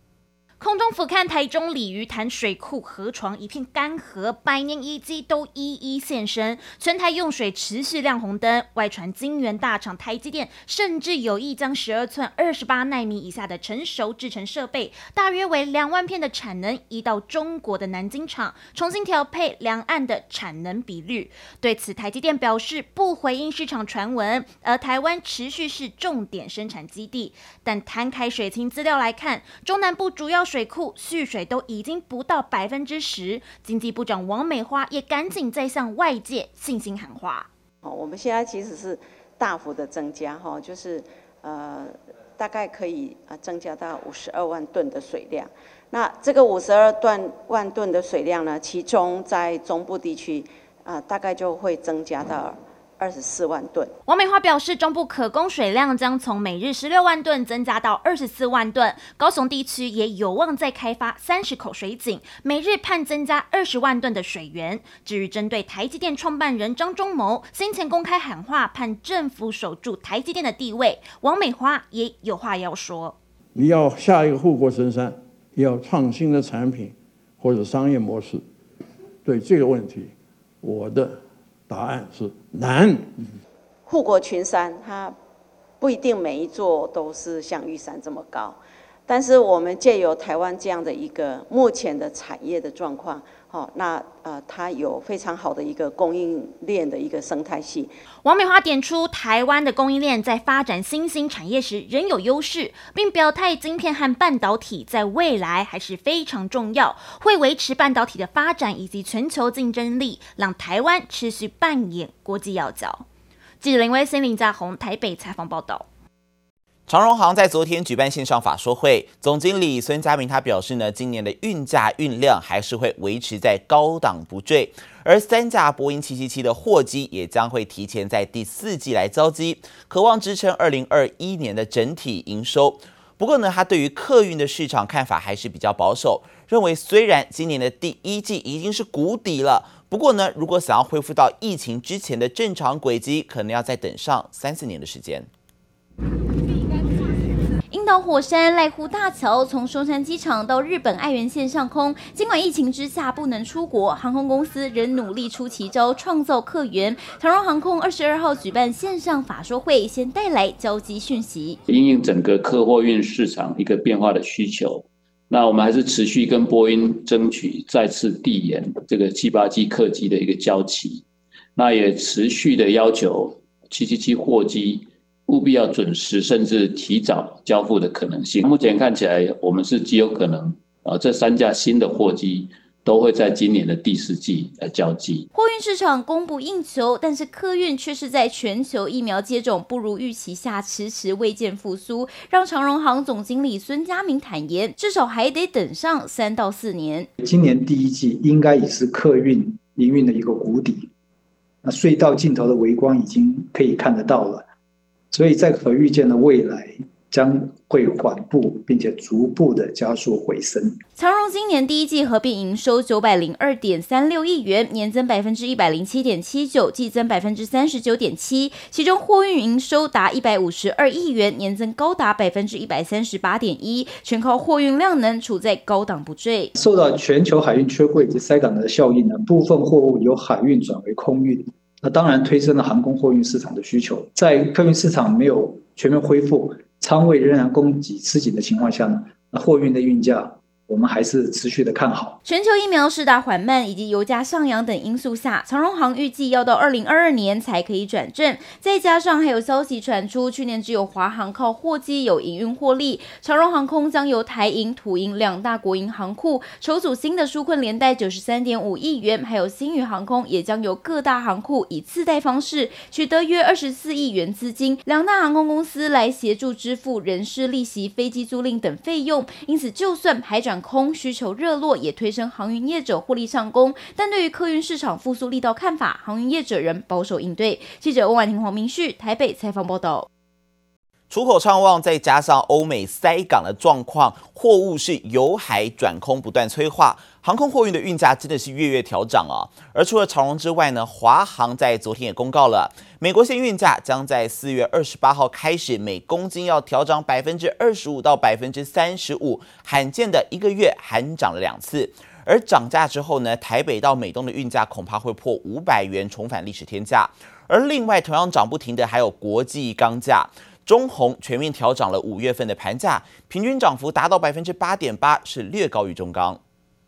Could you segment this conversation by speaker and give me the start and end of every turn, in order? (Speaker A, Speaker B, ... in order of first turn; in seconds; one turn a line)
Speaker A: 0.6-37.5
Speaker B: 37.8-53.9
Speaker A: 54.0-73.2
Speaker C: 73.5-78.4
Speaker C: 79.2-80.1
Speaker C: 80.6-81.2
Speaker C: 81.7-83.1
Speaker B: 83.8-85.2
Speaker B: 85.8-97.9
Speaker A: 98.2-113.0
Speaker A: 113.6-115.8
Speaker D: 116.9-145.3
Speaker E: 147.7-161.6
Speaker F: 161.7-171.0
Speaker F: 171.6-185.2
Speaker E: 185.3-197.1
Speaker G: 197.2-200.9
Speaker G: 201.6-204.4
Speaker G: 205.1-210.8
Speaker E: 211.0-226.5
Speaker G: 226.6-242.2
Speaker E: 242.2-280.1
Speaker D: 281.1-316.4